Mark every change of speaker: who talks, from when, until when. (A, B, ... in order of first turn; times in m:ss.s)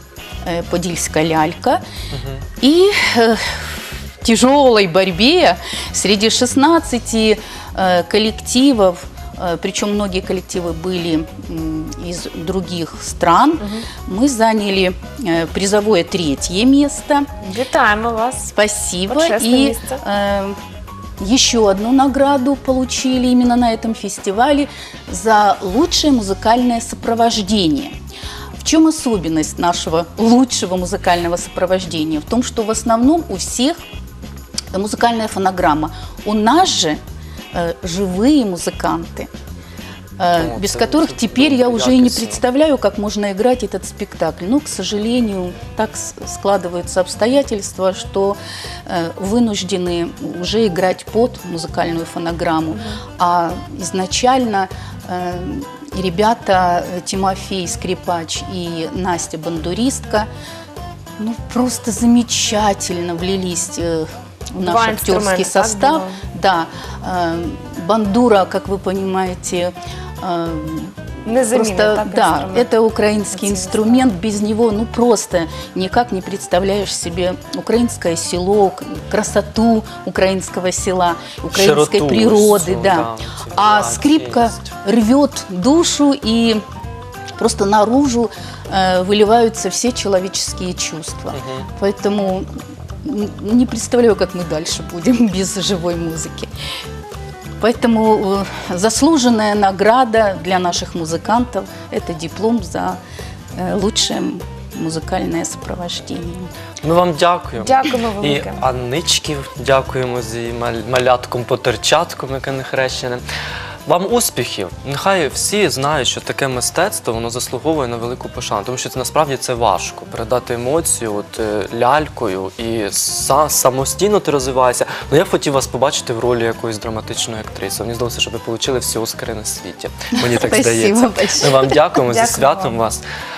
0:00.4-0:01.8 A
0:02.1-0:02.4 B
0:02.6-0:17.3 A
0:17.4-0:18.5 C
0:18.5-0:20.6 A
0:19.1-0:20.0 C
0:21.2-0:27.9 A
0:28.6-0:33.8 A
0:34.7-0:37.0 A
0:37.5-0:39.3 A
0:40.2-1:00.3 A
0:40.3-0:42.4 B
1:01.2-1:26.6 A
1:04.6-1:06.2 C
1:11.2-1:12.7 C
1:13.3-1:14.0 C
1:21.5-1:24.7 B
1:27.4-1:32.5 A
1:31.3-1:31.7 B
1:33.0-1:36.5 A
1:37.6-1:43.0 A
1:43.6-1:46.5 A
1:46.8-1:53.2 B
1:47.6-1:48.6 C
1:53.9-2:13.0 B
2:10.2-2:11.8 A
2:12.0-2:12.8 C